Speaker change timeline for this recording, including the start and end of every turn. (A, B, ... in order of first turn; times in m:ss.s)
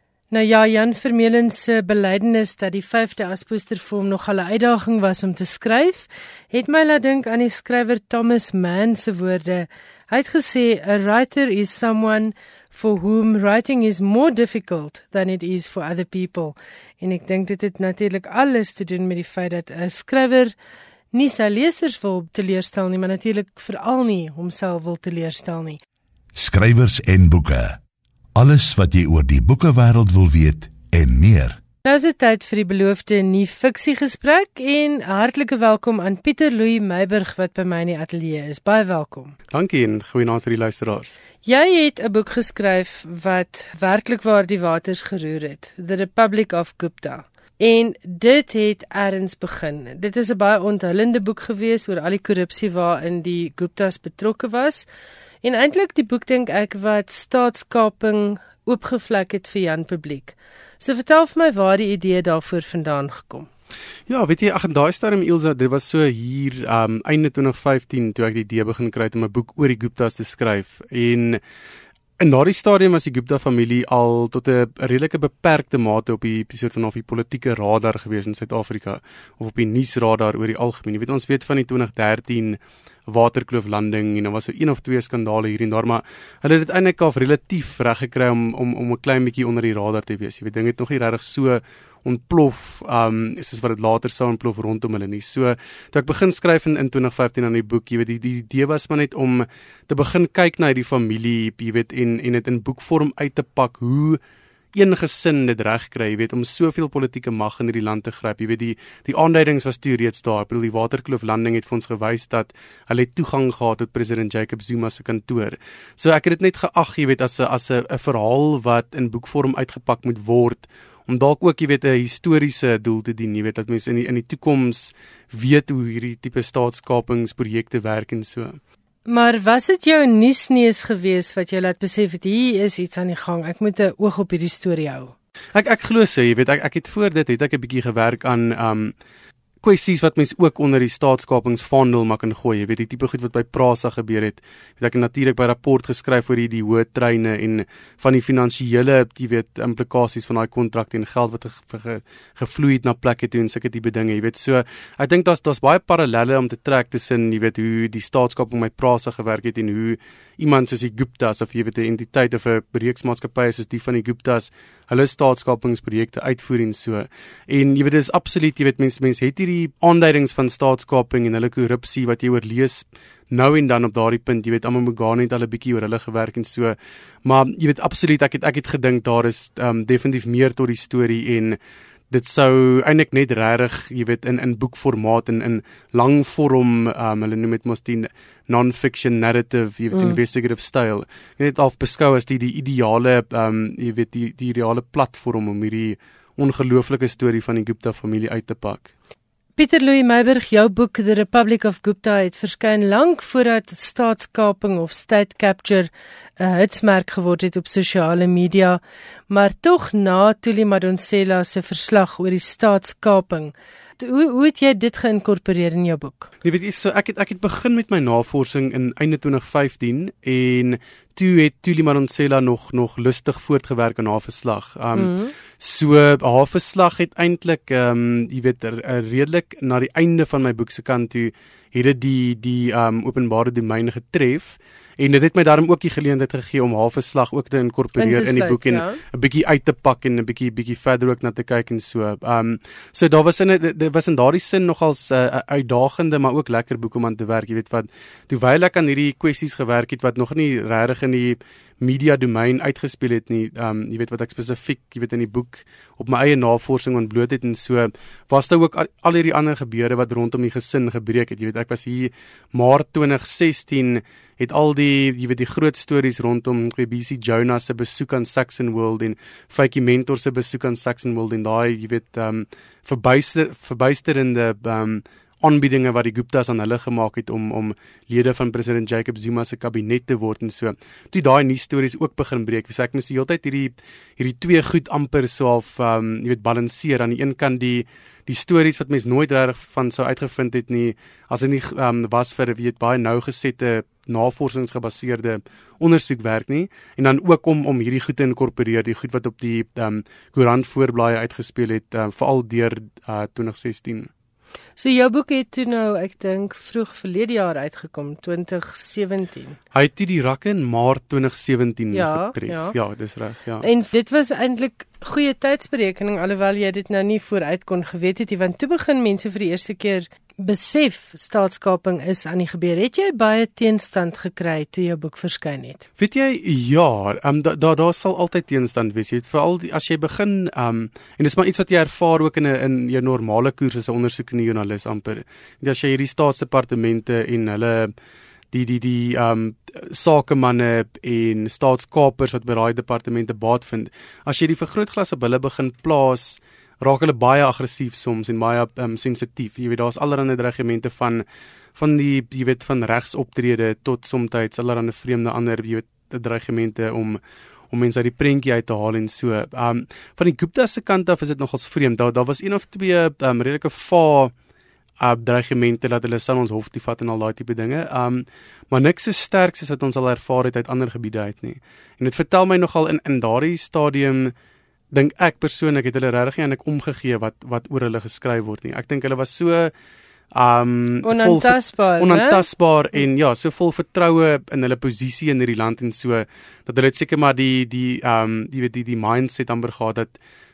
0:00.3-0:20.5 A
0:21.1-0:25.8 A
0:26.4-0:27.8 B
0:28.4-0:31.6 B
0:31.8-0:39.4 A
0:39.5-0:41.2 C
0:41.4-0:54.9 A
0:55.4-1:03.5 A
1:04.1-1:11.4 C
1:12.2-1:44.2 C
1:44.8-2:08.6 C
2:09.1-2:15.1 A
2:15.5-2:18.9 C
2:19.6-3:01.6 C
3:02.1-3:18.9 C
3:09.9-3:10.2 A
3:19.6-3:36.3 A
3:36.4-5:04.1 C
3:45.0-3:45.3 A
3:58.0-3:59.0 A
5:04.8-5:09.6 A
5:09.7-5:13.7 C
5:11.9-5:12.8 A
5:13.6-5:25.9 A
5:26.0-5:37.9 C
5:38.5-5:51.2 C
5:51.8-5:57.2 C
5:57.7-6:04.3 C
6:05.0-6:14.3 C
6:14.9-6:19.7 C
6:20.3-6:30.2 C
6:21.0-6:22.4 A